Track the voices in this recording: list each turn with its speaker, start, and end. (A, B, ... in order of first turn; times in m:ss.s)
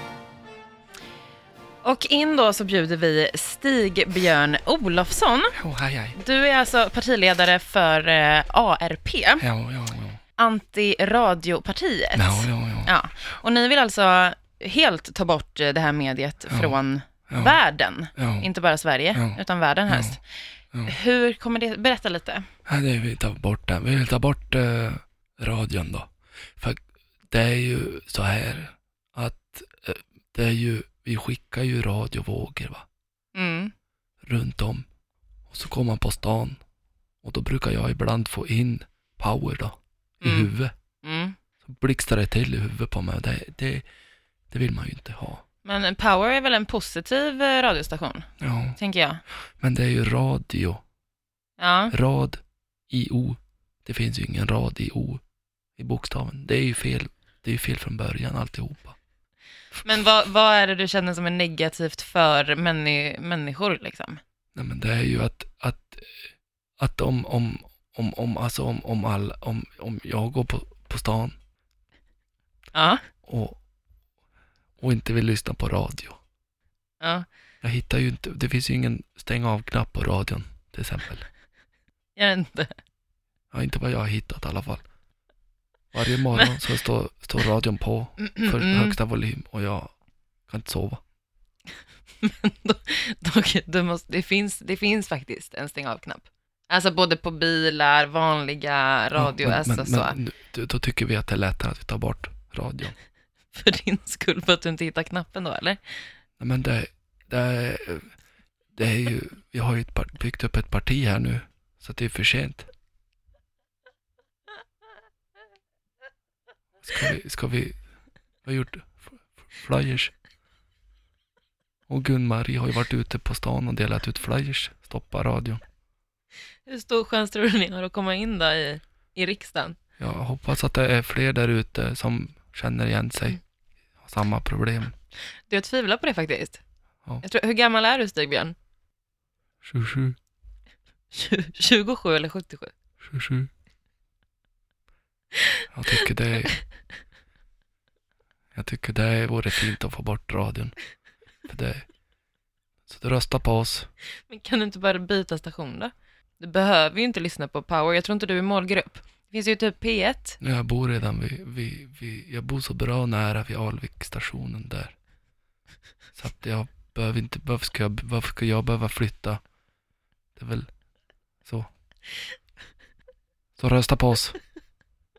0:01.8-0:05.6 A
0:05.6-0:06.2 B
0:06.1-0:09.4 A
0:09.4-0:10.2 B
0:10.4-0:20.2 A
0:12.1-0:12.9 B
0:16.5-0:16.7 B
0:17.3-0:17.6 B
0:18.2-0:18.5 B
0:19.1-0:20.2 B
0:20.8-0:22.5 A
0:22.6-0:32.8 B
0:33.3-0:33.7 A
0:34.2-0:34.9 B
0:35.5-0:36.6 B
0:37.2-0:40.7 B
0:40.2-0:40.5 A
0:41.0-0:41.4 A
0:41.6-0:43.8 B
0:44.5-0:45.4 B
0:45.6-0:49.2 A
0:48.4-0:48.8 B
0:49.6-0:50.8 B
0:51.6-0:51.9 A
0:51.9-0:55.2 B
0:55.8-0:59.0 B
0:59.8-1:04.2 A
1:04.5-1:06.3 B
1:06.8-1:11.3 B
1:12.7-1:13.0 A
1:13.2-1:13.6 B
1:14.8-1:16.2 B
1:17.0-1:17.3 A
1:17.6-1:21.3 B
1:22.2-1:22.7 A
1:23.5-1:24.8 B
1:25.9-1:29.9 B
1:28.2-1:29.0 A
1:30.5-1:31.0 B
1:32.2-1:40.2 A
1:39.2-1:42.9 B
1:43.5-1:46.1 A
1:46.4-1:48.1 B
1:48.7-1:52.7 B
1:56.8-1:57.8 B
1:58.4-2:00.1 B
2:01.9-2:05.6 B
2:06.6-2:09.8 A
2:10.0-2:13.4 B
2:14.0-2:15.0 B
2:15.5-2:16.6 A
2:17.2-2:18.6 A
2:19.6-2:20.2 B
2:21.1-2:22.7 A
2:23.0-2:23.5 B
2:25.7-2:26.6 B
2:28.5-2:30.8 B
2:31.4-2:31.8 B
2:32.9-2:33.9 B
2:34.3-2:40.4 A
2:40.4-2:44.9 B
2:46.2-2:49.4 B
2:50.4-2:50.7 B
2:53.6-2:54.4 B